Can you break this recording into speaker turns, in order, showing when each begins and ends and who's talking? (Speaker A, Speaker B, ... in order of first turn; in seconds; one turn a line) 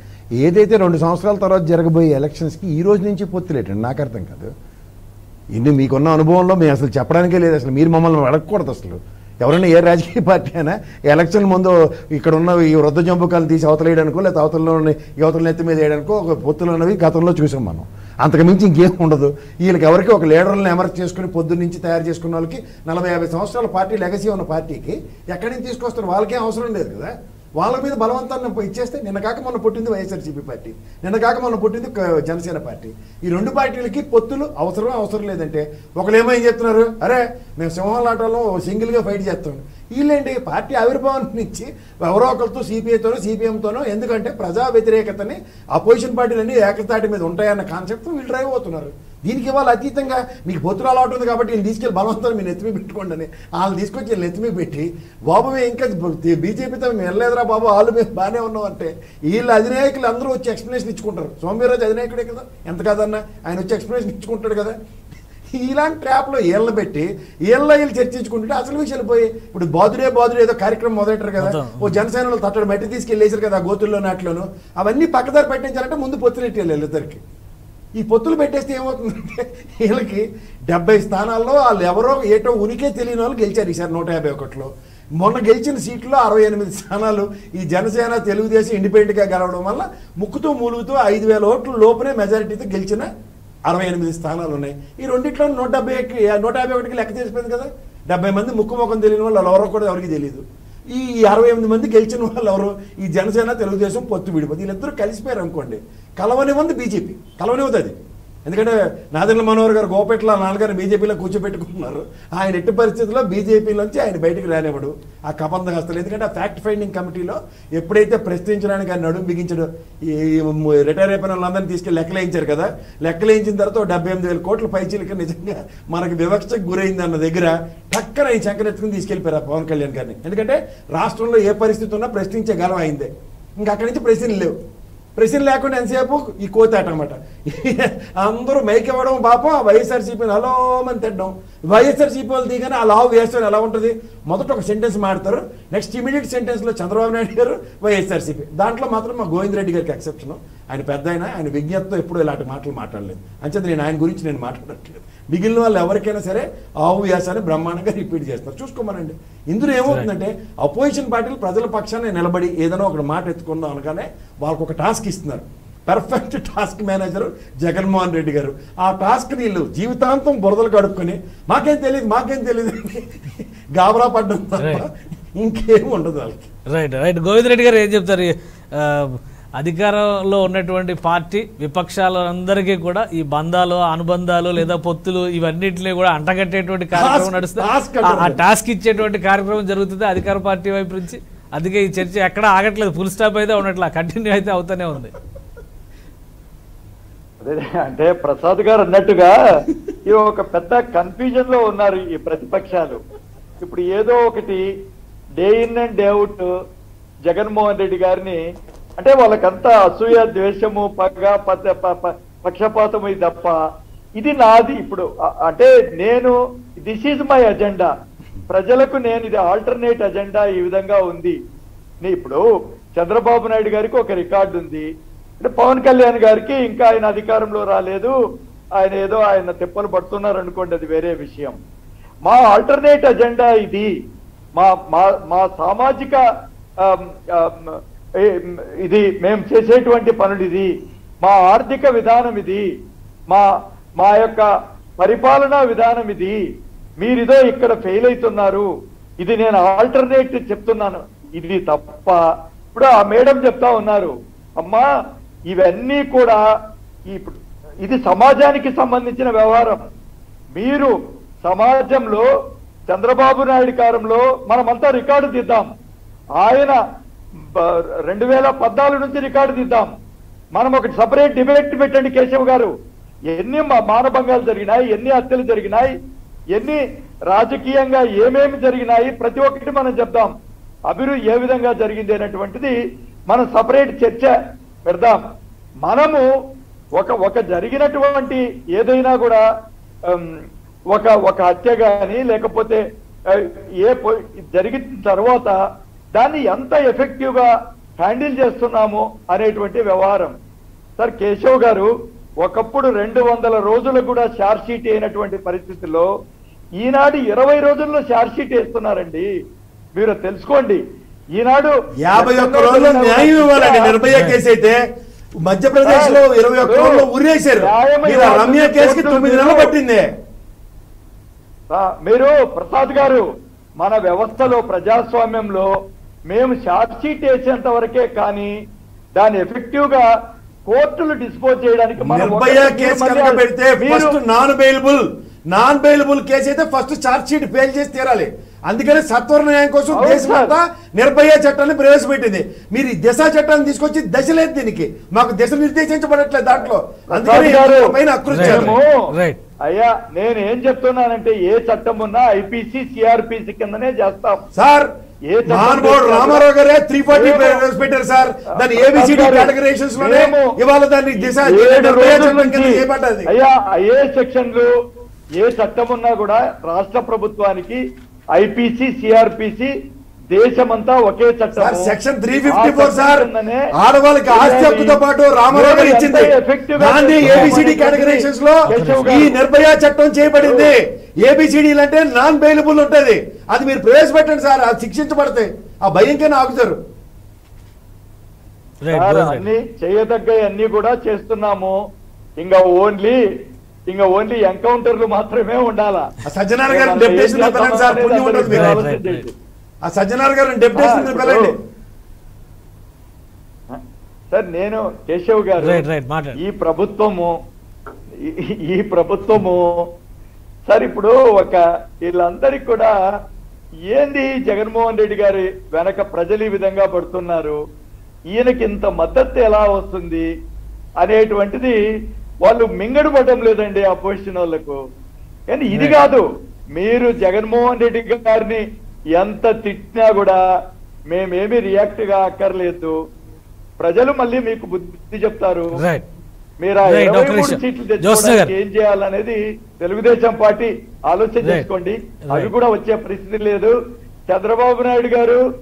Speaker A: 0.4-4.5
Speaker A: 5.5-64.7
Speaker A: 65.5-77.2
Speaker B: 71.4-72.0
Speaker A: 78.0-93.1
Speaker A: 93.7-107.9
Speaker A: 108.5-134.6
Speaker A: 135.2-176.5
Speaker B: 176.7-195.1
Speaker A: 186.9-188.4
Speaker C: 197.4-203.0
Speaker C: 203.6-204.6
Speaker C: 205.4-206.5
Speaker C: 207.2-208.4
Speaker C: 209.0-213.6
Speaker C: 214.2-217.9
Speaker C: 218.5-221.4
Speaker C: 222.0-222.4
Speaker C: 222.9-224.9
Speaker C: 225.4-228.1
Speaker C: 228.8-231.6
Speaker C: 232.2-233.9
Speaker C: 234.6-236.2
Speaker C: 236.8-240.7
Speaker C: 241.2-242.6
Speaker C: 244.0-244.5
Speaker C: 245.0-246.4
Speaker C: 247.0-248.7
Speaker C: 249.2-252.2
Speaker C: 252.7-254.9
Speaker C: 255.5-256.4
Speaker C: 257.1-259.9
Speaker C: 260.6-262.3
Speaker C: 262.9-265.7
Speaker C: 266.4-266.8
Speaker C: 267.5-269.9
Speaker C: 270.5-272.7
Speaker C: 273.3-275.9
Speaker C: 276.5-280.3
Speaker C: 280.9-282.8
Speaker C: 283.3-284.3
Speaker C: 284.9-285.2
Speaker C: 285.8-286.2
Speaker C: 287.0-289.4
Speaker C: 290.1-295.6
Speaker C: 296.1-300.4
Speaker C: 301.0-301.9
Speaker C: 302.4-306.1
Speaker C: 306.8-309.3
Speaker C: 309.9-310.8
Speaker C: 311.4-313.9
Speaker A: 312.0-314.8
Speaker B: 314.1-314.4
Speaker A: 315.5-320.1
Speaker C: 315.8-317.0
Speaker C: 317.6-319.7
Speaker C: 321.7-323.2
Speaker C: 323.8-325.7
Speaker C: 326.3-328.5
Speaker C: 329.1-330.1
Speaker C: 330.7-334.2
Speaker A: 332.0-348.7
Speaker C: 339.9-340.5
Speaker C: 347.1-349.0
Speaker B: 348.3-349.4
Speaker C: 349.6-354.4
Speaker A: 354.5-354.9
Speaker C: 355.3-356.4
Speaker A: 355.4-363.3
Speaker C: 357.1-357.6
Speaker C: 358.6-360.5
Speaker C: 361.4-364.7
Speaker C: 365.4-367.8
Speaker C: 368.3-369.7
Speaker C: 370.3-371.9
Speaker A: 371.6-386.8
Speaker C: 372.5-373.6
Speaker C: 374.3-374.9
Speaker C: 375.5-379.4
Speaker B: 377.2-377.6
Speaker B: 378.7-379.2
Speaker C: 380.4-380.7
Speaker B: 388.8-389.5
Speaker C: 388.9-391.8
Speaker C: 392.4-393.2
Speaker C: 393.9-396.1
Speaker A: 396.2-398.8
Speaker C: 396.7-399.3
Speaker B: 398.5-399.2
Speaker A: 399.9-401.6
Speaker C: 400.7-401.5
Speaker C: 403.7-405.8
Speaker B: 405.6-406.4
Speaker C: 406.4-407.3
Speaker C: 408.2-409.9
Speaker C: 410.7-412.9
Speaker C: 413.9-417.6
Speaker C: 418.3-420.3
Speaker C: 421.0-421.8
Speaker C: 422.4-424.8
Speaker C: 425.5-426.2
Speaker B: 425.7-426.0
Speaker C: 426.8-428.6
Speaker C: 429.1-430.4
Speaker C: 431.1-432.9
Speaker C: 433.8-435.8
Speaker B: 435.7-436.0
Speaker C: 436.6-443.7
Speaker B: 436.8-438.5
Speaker B: 442.3-442.5
Speaker C: 444.3-445.4